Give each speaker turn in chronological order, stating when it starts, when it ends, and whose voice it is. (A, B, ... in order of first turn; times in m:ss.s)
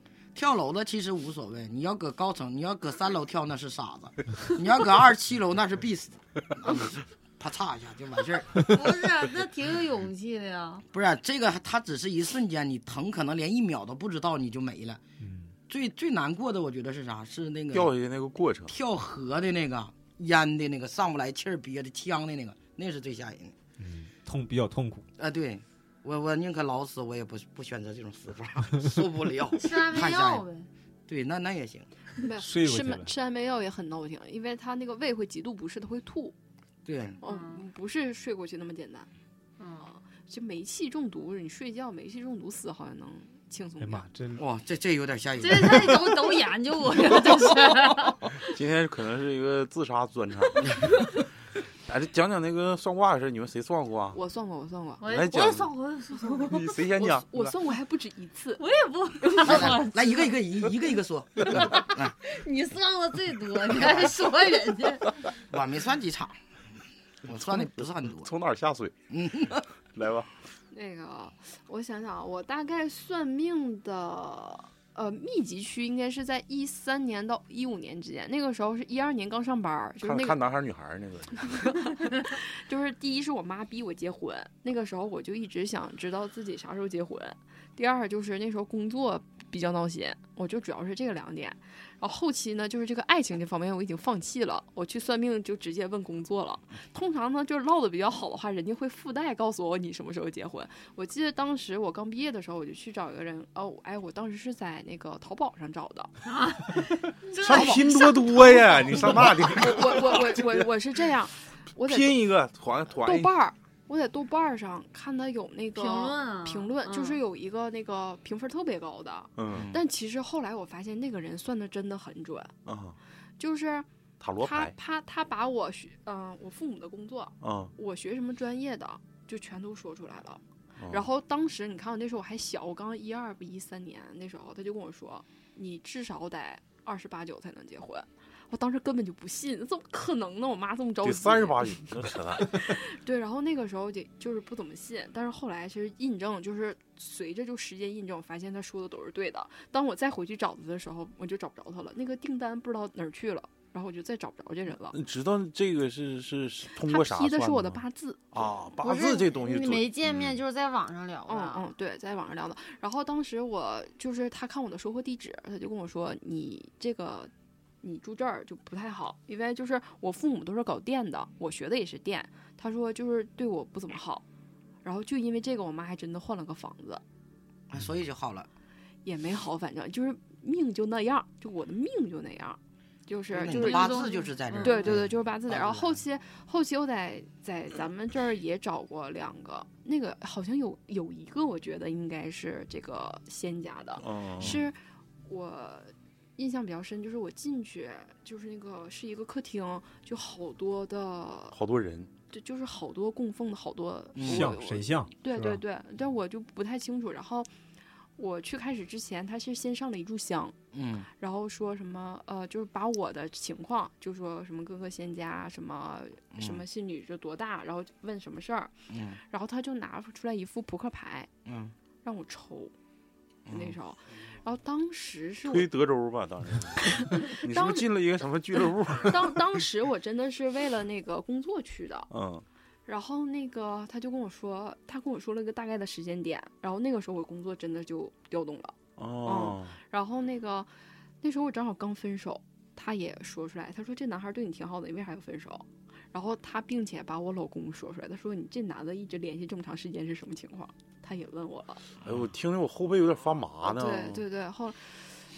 0:00.3-0:08.6 A
0:08.6-0:10.8 B
0:10.9-0:15.0 A
0:15.2-0:15.5 C
0:15.7-0:17.9 A
0:17.7-0:18.7 D
0:18.7-0:23.5 A
0:23.8-0:25.0 C
0:25.2-0:30.4 A
0:29.5-0:30.7 B
0:31.1-0:31.9 A
0:32.2-0:36.4 E
0:32.4-0:33.1 C
0:36.8-0:37.2 A
0:37.2-0:39.1 E
0:37.2-0:37.6 B
0:39.6-0:39.8 B
0:39.8-0:44.1 E
0:43.8-0:44.4 C
0:44.4-0:46.4 A
0:45.4-0:48.2 B
0:48.5-0:50.7 D
0:51.8-0:54.2 D
0:54.1-0:55.0 E
0:55.0-0:56.7 B
0:55.0-0:55.7 D
0:56.4-0:57.6 D
0:57.0-0:58.6 E
0:58.6-1:00.4 B
0:59.2-0:59.6 E
0:59.4-1:02.1 A
1:01.5-1:05.1 B
1:05.5-1:06.4 A
1:07.2-1:08.3 A
1:07.4-1:08.9 D
1:09.1-1:09.6 A
1:09.9-1:10.3 D
1:10.7-1:20.4 E
1:20.0-1:21.8 D
1:21.4-1:46.1 E
1:46.2-1:49.1 B
1:47.4-1:50.7 D
1:47.4-1:52.2 E
1:51.8-1:53.3 D
1:53.0-2:02.5 E
1:55.7-1:57.2 B
1:59.4-1:59.7 D
1:59.5-1:59.8 A
2:02.6-2:03.0 D
2:03.4-2:03.9 E
2:04.2-2:04.7 D
2:04.4-2:35.0 E
2:07.4-2:07.7 D
2:10.8-2:11.1 D
2:21.0-2:22.7 D
2:34.9-2:40.4 D
2:36.8-2:38.5 E
2:38.8-2:41.7 B
2:41.3-2:54.2 E
2:54.8-2:57.0 E
2:57.7-2:58.5 A
2:59.0-3:04.1 E
3:03.3-3:06.0 A
3:03.5-3:05.0 B
3:04.6-3:21.6 E
3:14.0-3:14.6 D
3:21.5-3:22.1 D
3:22.3-3:27.5 E
3:24.1-3:24.6 A
3:24.2-3:25.6 C
3:28.2-3:30.5 E
3:30.7-3:31.1 A
3:31.1-3:38.7 E
3:36.3-3:36.6 A
3:38.9-3:39.2 A
3:39.3-3:41.3 E
3:41.4-3:41.7 A
3:42.0-3:42.7 E
3:43.5-3:43.8 A
3:43.5-3:45.7 E
3:45.4-3:49.6 D
3:46.8-3:47.9 E
3:49.0-3:52.1 E
3:52.1-3:52.4 D
3:52.8-4:00.7 E
3:59.0-3:59.8 D
4:01.2-4:11.8 E
4:12.0-4:14.2 D
4:13.6-4:14.9 E